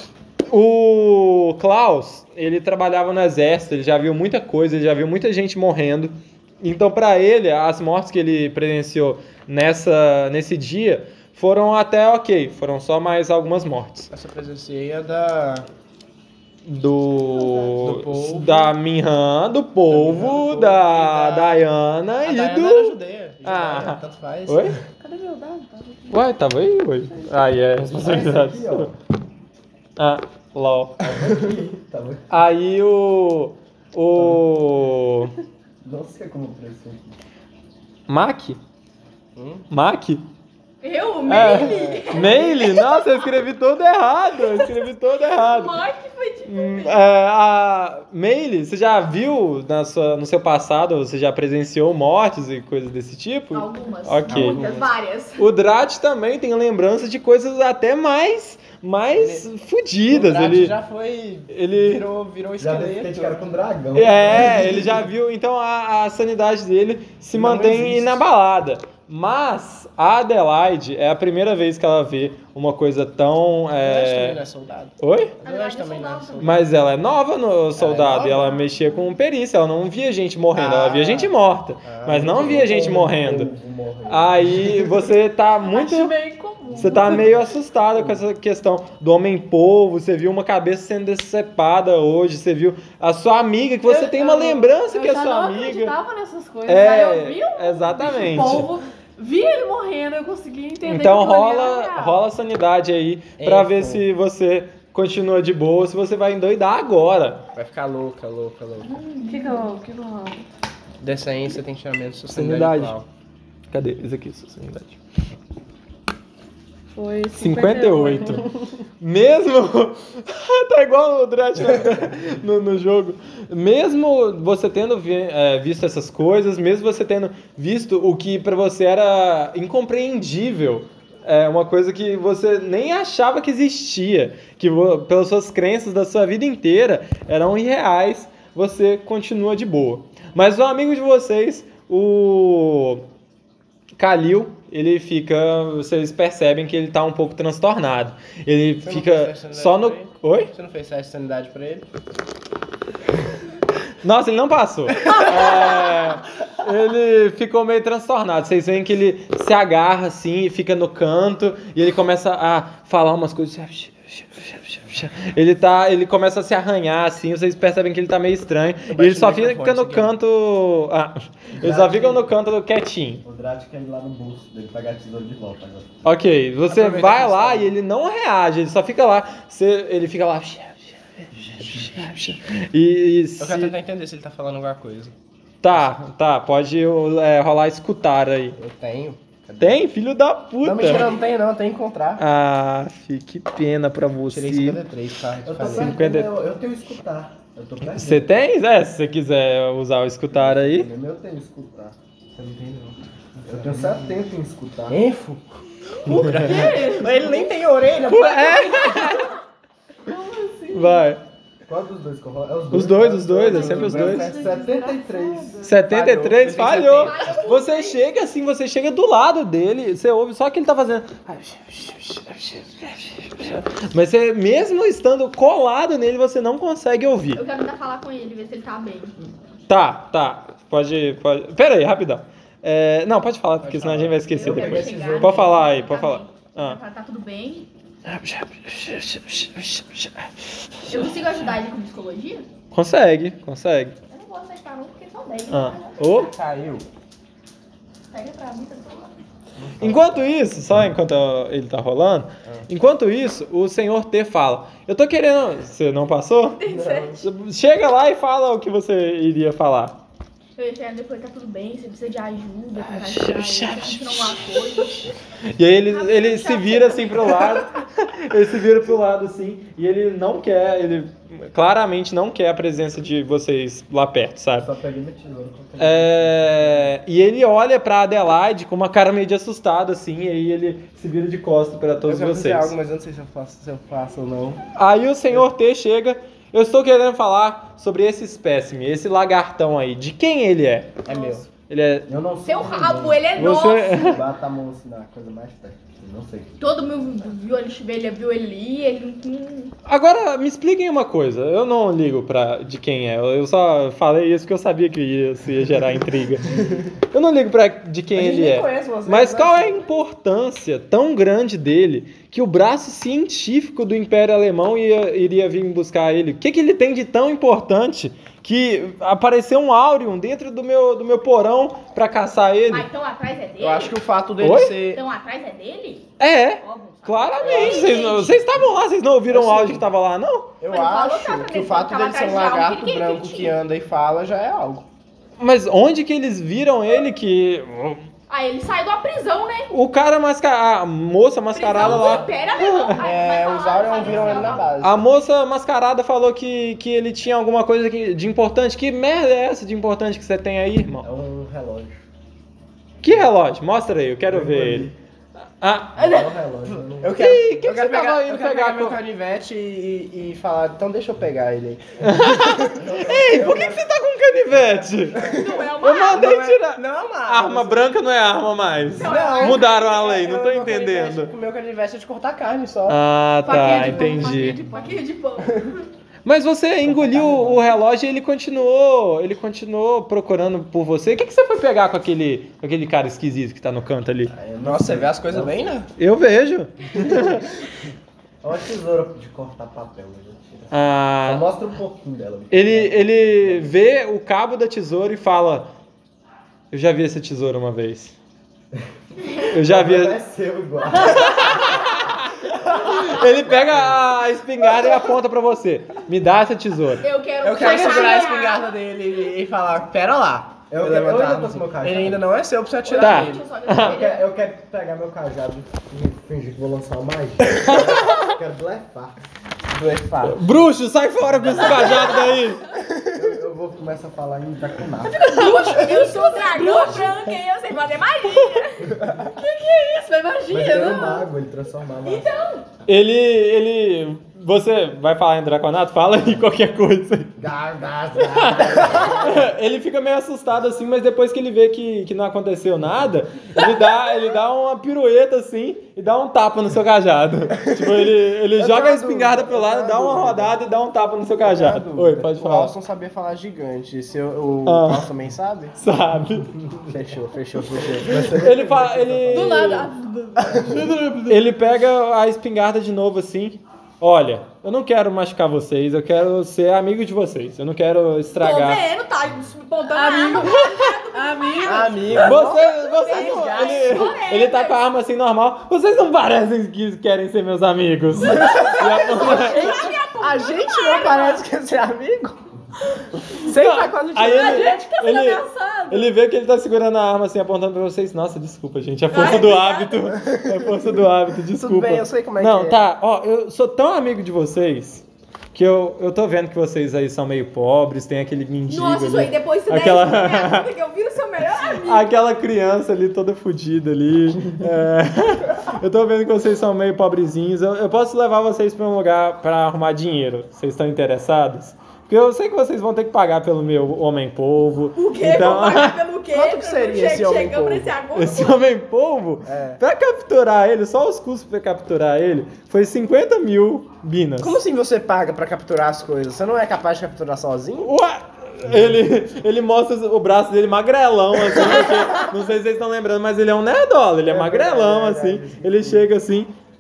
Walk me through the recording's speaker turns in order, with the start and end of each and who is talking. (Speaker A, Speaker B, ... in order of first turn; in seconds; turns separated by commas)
Speaker A: 0.5-14.1, Speaker B: 14.1-15.7, Speaker A: 16.6-24.8, Speaker C: 17.3-17.7, Speaker B: 17.8-18.4, Speaker D: 17.9-18.5, Speaker B: 19.9-21.6, Speaker B: 22.2-24.8, Speaker C: 25.0-26.3, Speaker A: 26.1-28.9, Speaker C: 27.1-27.3, Speaker D: 27.9-28.9, Speaker A: 30.0-31.0, Speaker D: 31.0-32.3, Speaker A: 32.3-35.3, Speaker D: 35.8-37.2, Speaker A: 38.1-38.6, Speaker B: 39.3-39.6, Speaker A: 39.7-40.2, Speaker E: 40.8-43.3, Speaker A: 41.2-45.8, Speaker B: 41.3-42.3, Speaker E: 44.4-47.0, Speaker A: 46.4-54.6, Speaker E: 53.5-55.5, Speaker D: 54.3-54.8, Speaker B: 54.3-54.9, Speaker A: 55.4-60.8, Speaker B: 59.1-59.4, Speaker B: 60.1-63.4, Speaker A: 61.5-62.1, Speaker D: 62.6-65.0, Speaker A: 63.9-74.4, Speaker B: 67.3-68.2, Speaker B: 73.8-76.6, Speaker A: 75.0-75.3, Speaker C: 75.4-76.6, Speaker A: 76.4-83.5, Speaker B: 77.8-78.6, Speaker B: 80.5-81.3, Speaker B: 81.8-82.8, Speaker D: 82.2-84.8, Speaker A: 84.1-86.1, Speaker C: 85.6-87.3, Speaker A: 86.7-96.0, Speaker C: 93.8-102.2, Speaker A: 96.7-98.7, Speaker A: 100.8-107.4, Speaker B: 103.4-104.0, Speaker B: 107.5-109.0, Speaker E: 108.9-109.6, Speaker C: 109.2-110.4, Speaker B: 111.0-113.0, Speaker A: 112.3-113.0, Speaker A: 113.7-115.0, Speaker C: 116.9-118.5, Speaker A: 117.4-118.5, Speaker A: 119.0-143.1, Speaker A: 143.9-150.5, Speaker B: 148.8-151.8, Speaker A: 154.0-173.2, Speaker B: 168.9-170.1, Speaker D: 171.6-172.2, Speaker D: 173.2-176.1, Speaker A: 176.1-183.7, Speaker B: 176.7-177.7, Speaker D: 181.4-181.9, Speaker B: 183.4-185.1, Speaker A: 185.6-188.6, Speaker B: 188.6-189.8, Speaker A: 189.6-191.1, Speaker B: 190.6-192.2, Speaker A: 192.2-194.8, Speaker B: 194.3-196.0, Speaker D: 195.4-198.3, Speaker A: 195.7-196.3, Speaker A: 197.9-200.9, Speaker D: 200.3-202.9, Speaker B: 202.8-204.1, Speaker D: 203.4-205.0, Speaker B: 204.9-205.6, Speaker C: 206.1-207.5, Speaker A: 206.1-206.9, Speaker B: 206.1-209.3, Speaker A: 208.1-209.3, Speaker C: 210.1-211.1, Speaker A: 210.7-211.2, Speaker D: 211.7-215.5, Speaker A: 212.7-214.3, Speaker B: 213.4-214.5, Speaker C: 213.6-215.8, Speaker A: 215.6-227.4, Speaker B: 215.9-217.5, Speaker E: 216.9-218.0, Speaker E: 227.3-229.1, Speaker A: 229.7-236.8, Speaker B: 233.6-234.2, Speaker E: 234.3-237.7, Speaker D: 234.4-235.5, Speaker A: 238.1-241.1, Speaker E: 240.9-242.4, Speaker A: 242.7-244.0, Speaker E: 244.1-246.2, Speaker A: 245.5-246.3, Speaker B: 246.1-246.8, Speaker E: 248.1-249.1, Speaker D: 249.6-250.2, Speaker A: 249.8-256.6, Speaker E: 256.6-257.2, Speaker B: 256.7-257.1, Speaker A: 257.2-260.0, Speaker E: 260.6-265.1, Speaker A: 262.8-274.7, Speaker E: 265.9-267.7, Speaker D: 274.6-276.9, Speaker A: 275.8-282.7, Speaker B: 282.1-284.6, Speaker A: 284.8-291.0, Speaker B: 291.0-291.5, Speaker A: 291.7-292.1, Speaker D: 292.1-296.6, Speaker E: 292.4-294.2, Speaker A: 293.4-294.2, Speaker E: 296.6-299.7, Speaker A: 299.9-322.9, Speaker B: 308.1-309.9, Speaker E: 322.7-323.9, Speaker B: 323.6-325.0, Speaker A: 324.4-324.8, Speaker E: 324.9-326.1, Speaker A: 326.2-330.5, Speaker E: 326.6-328.4, Speaker B: 327.4-328.1, Speaker B: 329.3-329.8, Speaker B: 330.6-334.8, Speaker E: 330.7-333.6, Speaker A: 335.4-338.1, Speaker E: 338.3-339.7, Speaker A: 339.7-343.1, Speaker E: 341.6-344.7, Speaker B: 341.8-342.1, Speaker B: 343.0-345.0, Speaker D: 344.0-344.7, Speaker A: 344.8-351.1, Speaker D: 351.0-352.0, Speaker A: 353.0-354.9, Speaker D: 354.3-354.9, Speaker A: 355.6-356.2, Speaker D: 355.9-357.2, Speaker B: 357.0-362.8, Speaker A: 357.2-359.0, Speaker A: 362.0-365.2, Speaker D: 362.7-363.8, Speaker D: 364.5-365.3, Speaker B: 365.2-367.9, Speaker E: 365.3-366.4, Speaker A: 365.8-371.3, Speaker B: 368.9-373.0, Speaker E: 369.0-370.0, Speaker A: 372.9-374.6, Speaker E: 373.4-375.8, Speaker C: 373.5-375.0, Speaker B: 373.6-374.9, Speaker A: 376.2-384.3, Speaker B: 376.9-377.6, Speaker D: 384.3-385.5, Speaker B: 384.6-385.9, Speaker A: 386.0-387.5, Speaker D: 387.0-387.4, Speaker D: 388.4-393.8, Speaker A: 390.7-391.5, Speaker A: 392.5-395.7, Speaker A: 396.7-398.1, Speaker D: 399.4-401.9, Speaker A: 399.5-400.2, Speaker A: 400.9-407.1, Speaker D: 402.7-403.9, Speaker E: 407.0-408.8, Speaker B: 407.4-413.5, Speaker D: 410.7-412.2, Speaker E: 412.9-414.2, Speaker A: 412.9-414.0, Speaker D: 413.8-419.1, Speaker A: 417.7-418.3, Speaker B: 419.7-420.4, Speaker A: 420.2-422.6, Speaker E: 421.6-422.4, Speaker B: 422.7-423.1, Speaker D: 423.1-425.4, Speaker E: 425.0-428.9, Speaker C: 425.3-427.2, Speaker C: 429.2-431.3, Speaker D: 430.5-432.3, Speaker E: 432.1-432.7, Speaker A: 432.9-437.4, Speaker D: 437.4-439.5, Speaker A: 438.2-452.7, Speaker B: 448.6-450.4, Speaker D: 449.7-450.1, Speaker D: 451.5-451.9, Speaker B: 451.6-455.7, Speaker A: 454.6-455.1, Speaker A: 455.8-456.6, Speaker B: 456.8-458.8, Speaker D: 458.1-459.5, Speaker A: 458.3-459.9, Speaker C: 459.3-460.7, Speaker A: 461.2-468.8, Speaker E: 468.4-474.8, Speaker C: 469.9-472.2, Speaker B: 471.6-474.2, Speaker A: 472.1-479.9, Speaker E: 478.4-481.4, Speaker B: 478.4-482.4, Speaker B: 483.2-484.8, Speaker A: 483.5-500.7, Speaker C: 484.2-486.1, Speaker E: 489.1-490.1, Speaker B: 491.5-492.8, Speaker E: 498.7-502.1, Speaker A: 501.8-516.0, Speaker E: 515.0-518.6, Speaker B: 516.3-517.9, Speaker A: 518.1-524.6, Speaker B: 519.5-519.8, Speaker B: 524.4-527.9, Speaker A: 527.8-536.5, Speaker D: 534.3-536.0